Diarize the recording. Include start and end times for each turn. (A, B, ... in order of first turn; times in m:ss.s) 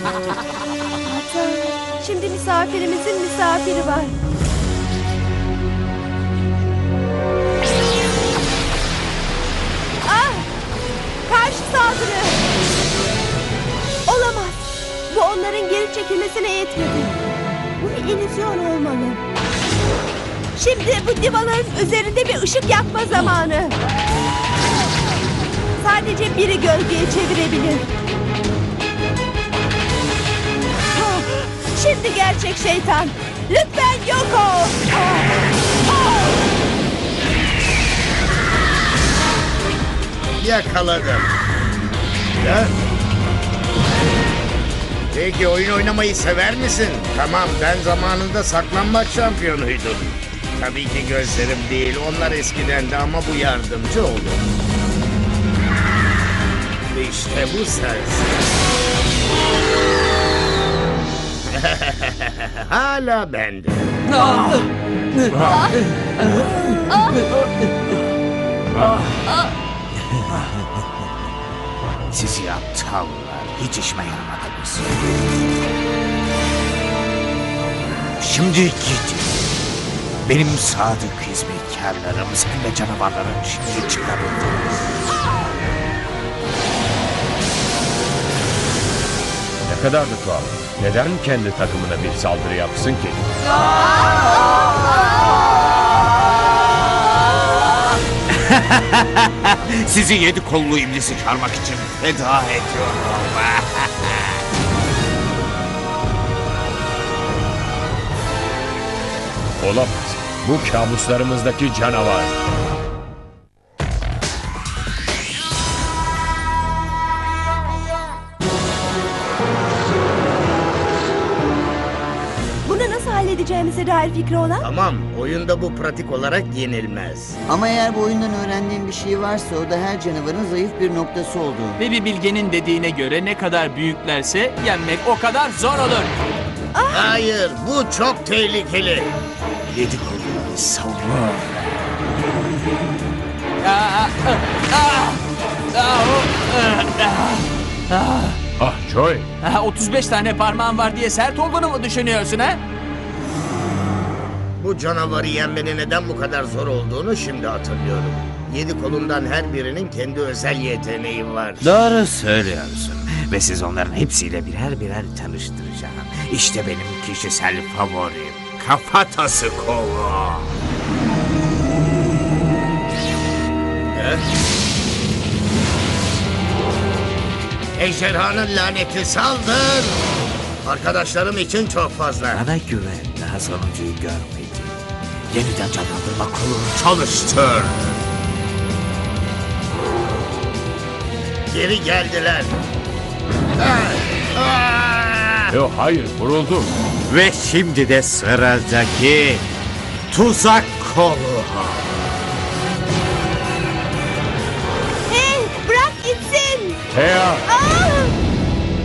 0:01.1-0:04.1 A
0:10.0-0:10.5 A
0:11.2-0:12.4 A
0:14.1-0:17.2 A
0:17.8-0:19.2 A
0:20.6-0:23.8 A
0:25.8-0:27.8 A
0:30.9-0:36.4 A
0:40.4-0:41.3 B
0:42.4-0:42.7 B
0:45.1-0:54.4 B
0:56.9-0:58.3 B
1:01.6-1:03.8 B
1:12.1-1:15.1 C
1:18.2-1:19.4 C
1:20.2-1:25.0 C
1:29.7-1:33.3 D
1:38.3-1:44.4 C
1:49.6-1:52.4 D
2:02.6-2:04.7 A
2:04.6-2:07.4 B
2:07.5-2:11.8 E
2:11.8-2:16.1 F
2:16.8-2:17.2 A
2:17.0-2:19.1 B
2:19.7-2:22.0 C
2:23.6-2:25.2 F
2:25.7-2:28.4 F
2:28.6-2:29.3 D
2:29.4-2:32.6 F
2:34.6-2:41.6 B
2:41.6-2:49.1 C
2:49.1-2:50.4 B
2:54.0-2:54.2 B
2:57.8-3:00.0 B
3:00.6-3:02.4 B
3:02.3-3:07.1 C
3:07.2-3:07.8 B
3:11.5-3:12.5 B
3:13.6-3:15.5 B
3:15.5-3:16.7 D
3:17.1-3:19.4 C
3:20.1-3:22.0 C
3:25.1-3:26.8 A
3:26.9-3:27.4 D
3:27.5-3:28.1 A